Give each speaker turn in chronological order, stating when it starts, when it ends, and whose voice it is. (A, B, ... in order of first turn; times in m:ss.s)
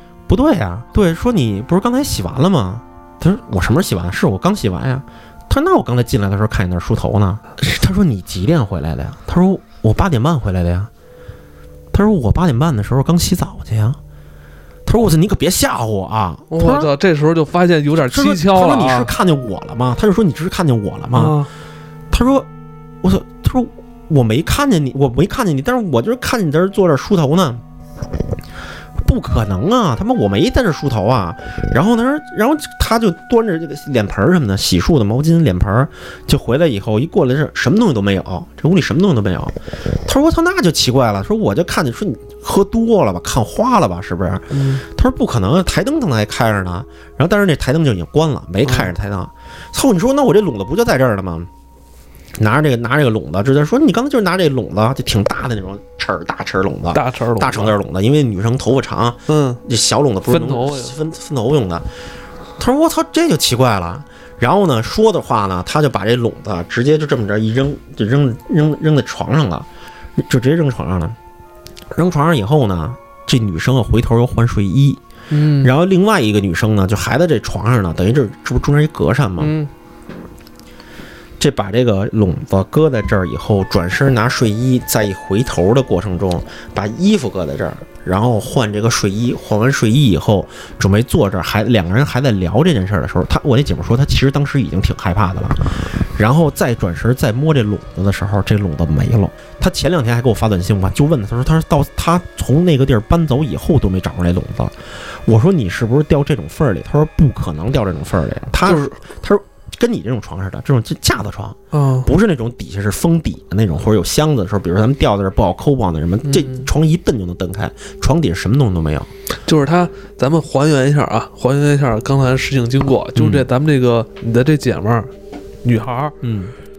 0:00.3-0:10.9 A
0:11.9-0:14.0 A
0:14.9-0:16.9 A
0:16.5-0:19.1 B
0:18.0-0:21.4 A
0:21.2-0:21.5 B
0:22.1-0:22.5 A
0:23.0-0:27.6 A
0:29.0-0:51.5 A
0:44.5-0:44.8 B
0:48.6-0:48.9 B
0:52.4-1:01.9 A
0:56.9-0:57.8 B
0:59.3-0:59.6 B
1:00.3-1:01.0 B
1:02.6-1:11.2 A
1:11.9-1:15.0 A
1:15.3-1:15.7 B
1:15.6-1:19.5 A
1:19.4-1:19.7 B
1:21.4-1:59.1 A
1:48.6-1:49.0 B
1:51.7-1:52.1 B
1:56.2-1:56.7 B
1:59.4-2:05.1 B
2:03.2-2:03.5 A
2:05.6-2:06.2 B
2:06.2-2:06.5 A